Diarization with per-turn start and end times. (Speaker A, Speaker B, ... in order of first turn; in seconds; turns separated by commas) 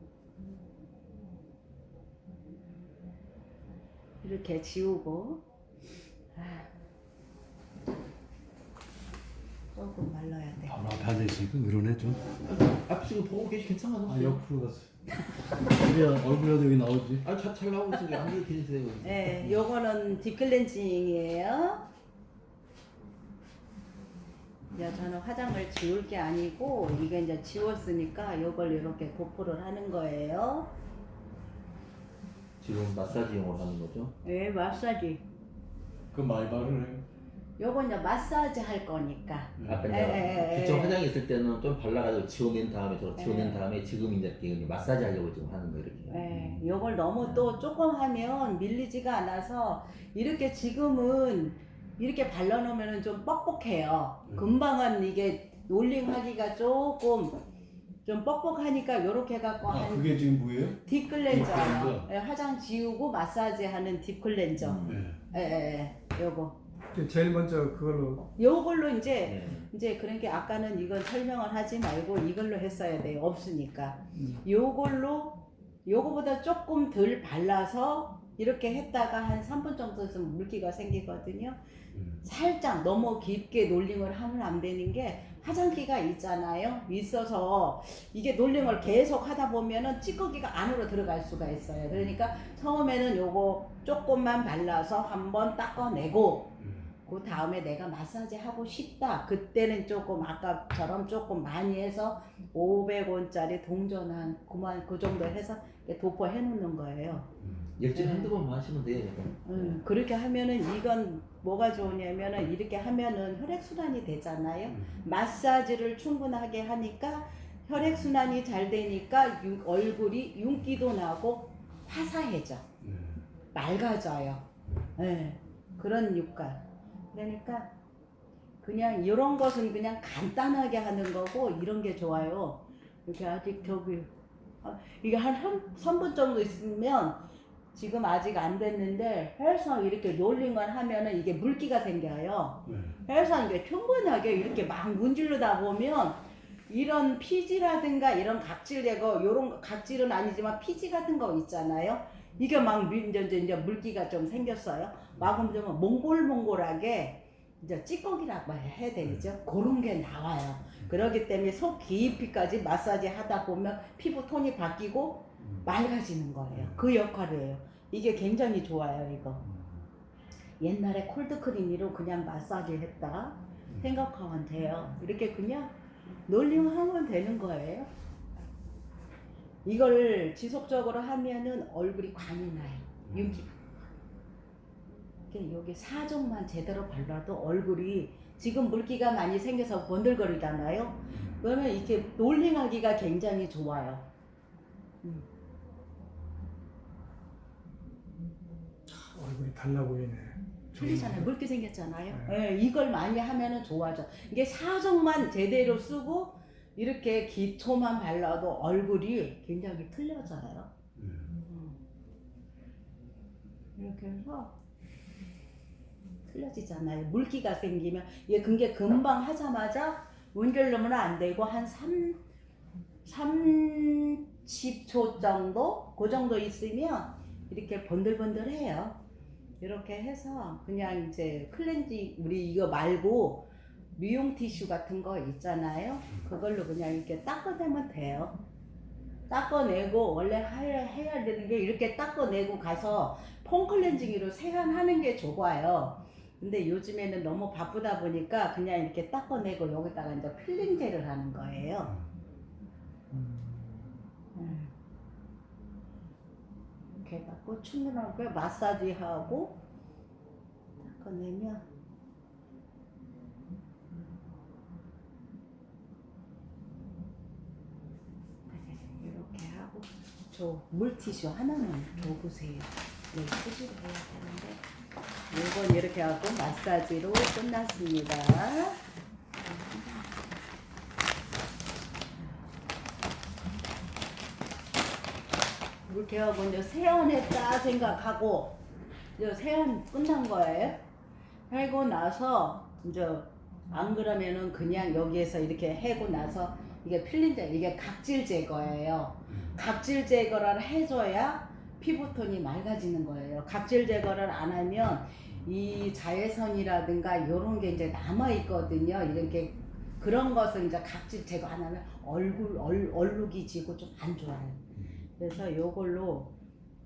Speaker A: 4.2-5.4, Speaker A: 6.3-6.7, Speaker A: 9.7-10.8, Speaker B: 10.7-12.3, Speaker C: 12.4-14.4, Speaker B: 14.1-14.9, Speaker B: 15.7-17.2, Speaker C: 17.2-19.6, Speaker A: 19.0-21.9, Speaker A: 24.7-30.7, Speaker C: 32.6-34.1, Speaker A: 34.2-35.2, Speaker B: 36.1-37.0, Speaker A: 37.6-41.0, Speaker B: 39.6-39.9, Speaker C: 39.6-46.2, Speaker A: 43.1-43.6, Speaker A: 46.1-57.4, Speaker B: 46.3-46.6, Speaker C: 47.2-47.5, Speaker A: 58.0-60.3, Speaker B: 59.7-62.1, Speaker A: 60.8-66.6, Speaker C: 64.6-65.0, Speaker B: 64.8-65.2, Speaker D: 66.9-68.2, Speaker A: 68.3-81.6, Speaker C: 69.2-69.7, Speaker B: 81.9-82.2, Speaker A: 82.2-96.5, Speaker B: 96.6-96.9, Speaker A: 97.0-107.3, Speaker B: 107.4-107.7, Speaker C: 107.8-109.8, Speaker A: 107.9-108.3, Speaker A: 109.4-122.6, Speaker B: 114.7-115.0, Speaker B: 122.8-123.2, Speaker A: 123.5-124.4, Speaker A: 125.0-127.7, Speaker A: 128.6-134.1, Speaker A: 134.6-137.2, Speaker A: 137.7-169.4, Speaker B: 142.7-143.0, Speaker B: 155.2-155.4, Speaker B: 165.4-165.7, Speaker B: 166.5-166.8, Speaker B: 169.4-169.8, Speaker A: 170.6-175.7, Speaker A: 176.3-177.9, Speaker A: 179.6-183.5, Speaker B: 183.1-183.4, Speaker A: 185.3-194.1, Speaker B: 191.1-191.4, Speaker D: 198.9-201.3, Speaker A: 200.8-210.7, Speaker D: 202.1-202.4, Speaker B: 210.9-211.3, Speaker A: 211.4-211.8, Speaker A: 213.8-214.6, Speaker A: 216.2-222.2, Speaker A: 223.0-229.0, Speaker A: 229.6-238.4, Speaker A: 239.3-252.0, Speaker D: 253.1-253.8, Speaker A: 254.3-254.7, Speaker A: 256.9-259.6, Speaker A: 260.8-261.6, Speaker A: 268.5-274.6, Speaker A: 275.3-278.8, Speaker A: 279.4-280.1, Speaker A: 285.9-288.6, Speaker A: 289.2-290.8, Speaker A: 291.5-314.6, Speaker B: 314.7-315.0, Speaker A: 315.2-316.3